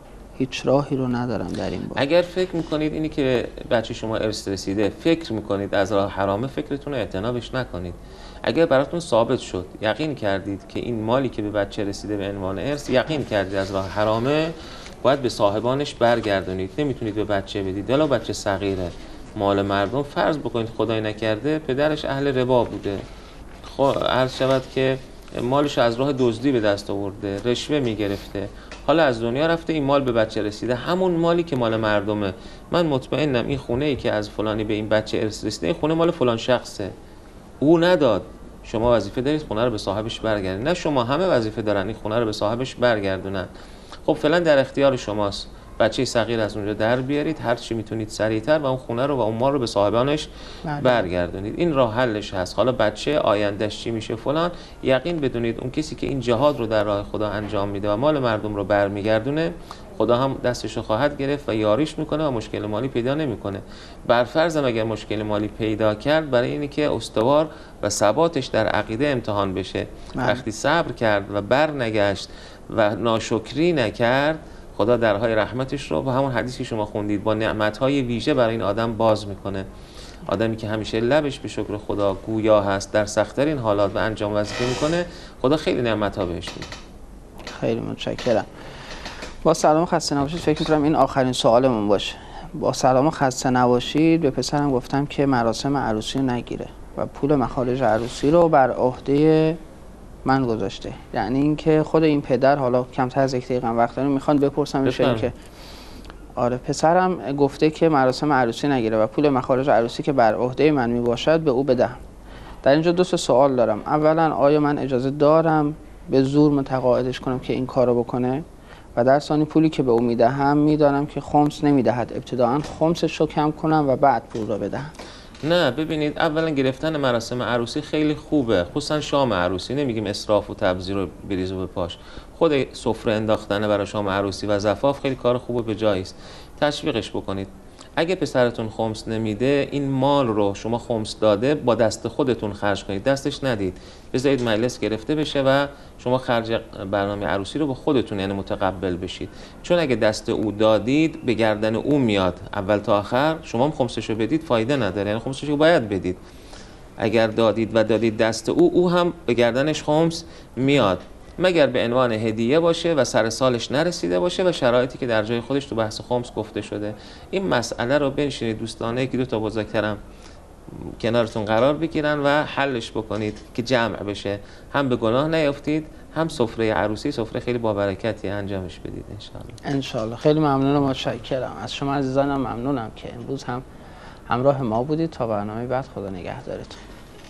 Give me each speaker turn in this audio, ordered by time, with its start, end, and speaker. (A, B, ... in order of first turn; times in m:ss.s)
0:00.4-0:02.0 A
0:01.9-0:23.0 B
0:23.6-0:36.9 B
0:37.6-0:43.5 B
0:44.0-1:19.7 B
0:50.6-0:51.0 A
1:10.2-1:10.4 A
1:20.2-1:26.7 B
1:27.5-1:28.5 A
1:29.4-1:39.6 A
1:40.2-1:45.3 A
1:44.8-1:45.3 B
1:46.4-1:52.0 A
1:52.6-2:04.9 A
2:05.4-2:36.2 B
2:37.0-2:50.0 B
2:50.7-2:59.6 B
2:59.6-3:03.6 A
3:04.3-3:06.8 A